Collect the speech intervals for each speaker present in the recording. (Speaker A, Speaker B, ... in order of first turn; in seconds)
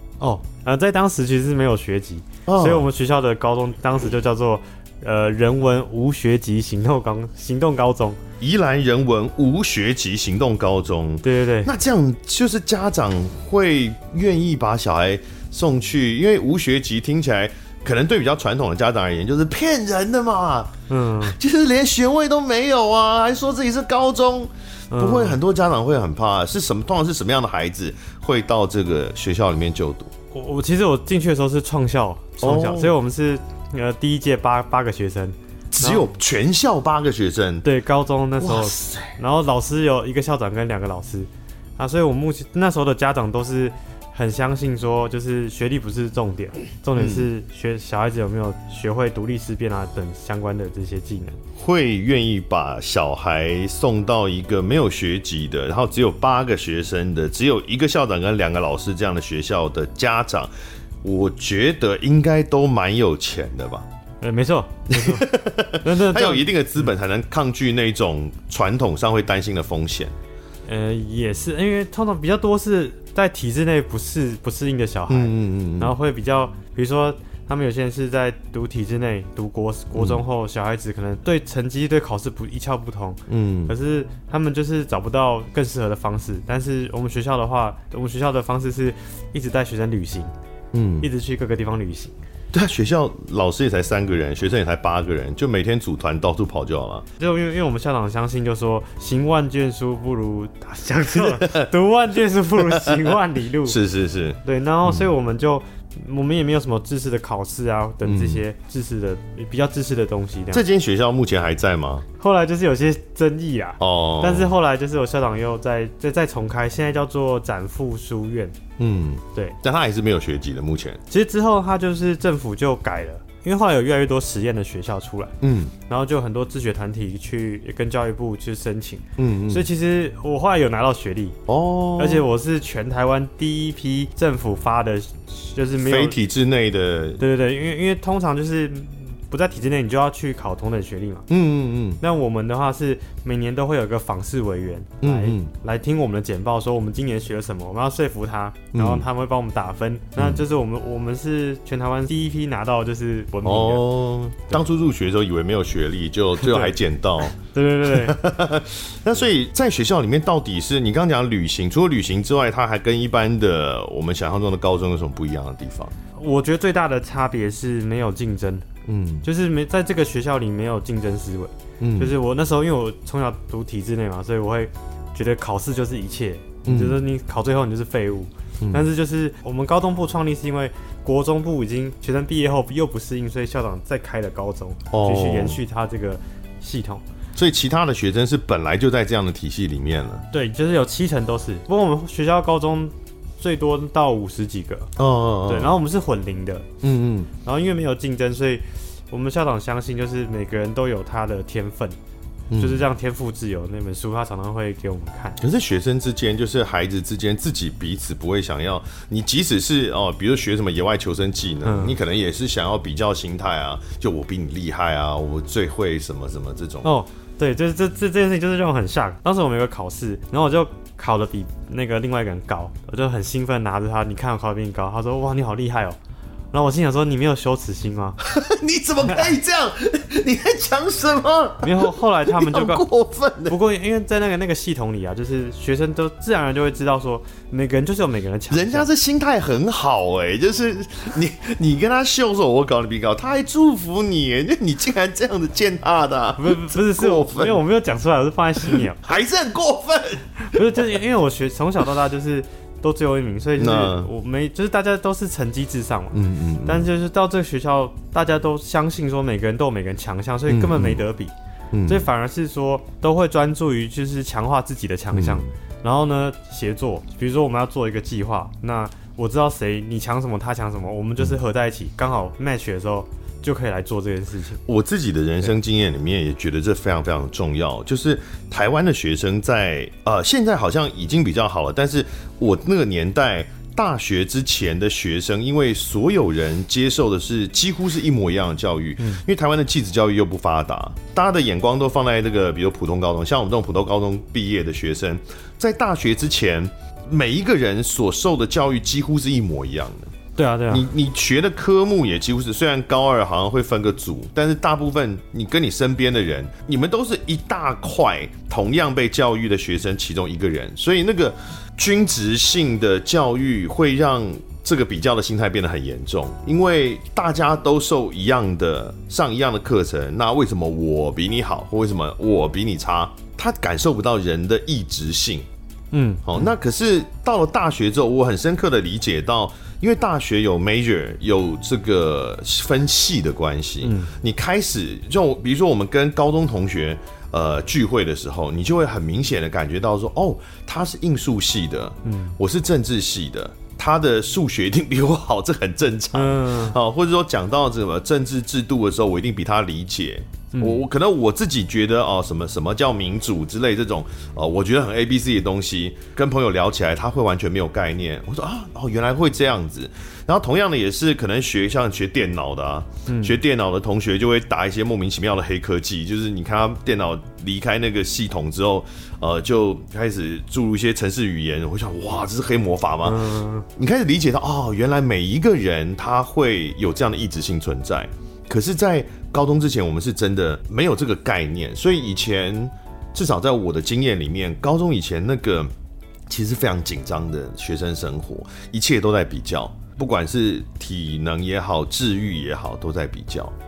Speaker A: 0.2-8.2, 11.2-11.7, 20.9-21.4, 24.9-25.4, 30.3-36.1, 37.6-51.4, 64.2-66.9, 70.7-90.3, 91.0-92.1, 97.2-103.8, 104.4-110.6, 112.2-118.5, 121.1-125.3, 125.9-131.4, 132.0-136.2, 137.2-141.3, 142.0-153.9, 156.4-156.8, 157.4-158.2, 166.2-168.7, 169.2-187.0, 190.3-194.9, 195.5-196.7, 197.4-201.9, 202.6-205.4, 211.6-212.0, 216.8-226.0, 226.5-228.2, 231.6-232.8, 233.5-238.9, 246.4-249.0, 250.4-261.3, 261.9-274.6, 300.4-300.9, 325.9-326.5, 333.8-334.1, 342.0-342.4, 346.1-346.8, 350.5-350.8, 363.1-363.4, 373.0-373.7
Speaker B: 2.5-2.9, 8.4-30.1, 32.4-32.9, 35.7-37.6, 38.4-39.1, 47.0-47.3, 51.5-60.5, 61.0-63.9, 64.9-70.1, 75.1-75.9, 79.9-80.2, 83.3-83.7, 90.7-91.1, 92.5-97.0, 101.1-101.7, 102.6-105.1, 108.0-108.4, 110.5-112.0, 113.8-114.5, 118.8-121.0, 125.4-125.7, 129.2-129.7, 131.5-132.2, 135.8-137.2, 141.3-142.0, 145.0-145.5, 148.7-149.1, 150.2-150.4, 153.4-157.3, 157.9-165.9, 168.8-169.2, 171.8-172.1, 176.6-177.0, 184.9-185.6, 187.3-190.2, 195.0-195.8, 196.8-197.3, 202.5-202.8, 205.4-216.9, 228.2-233.6, 238.5-247.6, 248.7-250.9, 253.6-254.1, 256.1-256.9, 260.5-261.0, 261.7-262.1, 265.1-265.5, 274.6-300.1, 300.7-325.4, 326.2-385.7, 386.3-393.5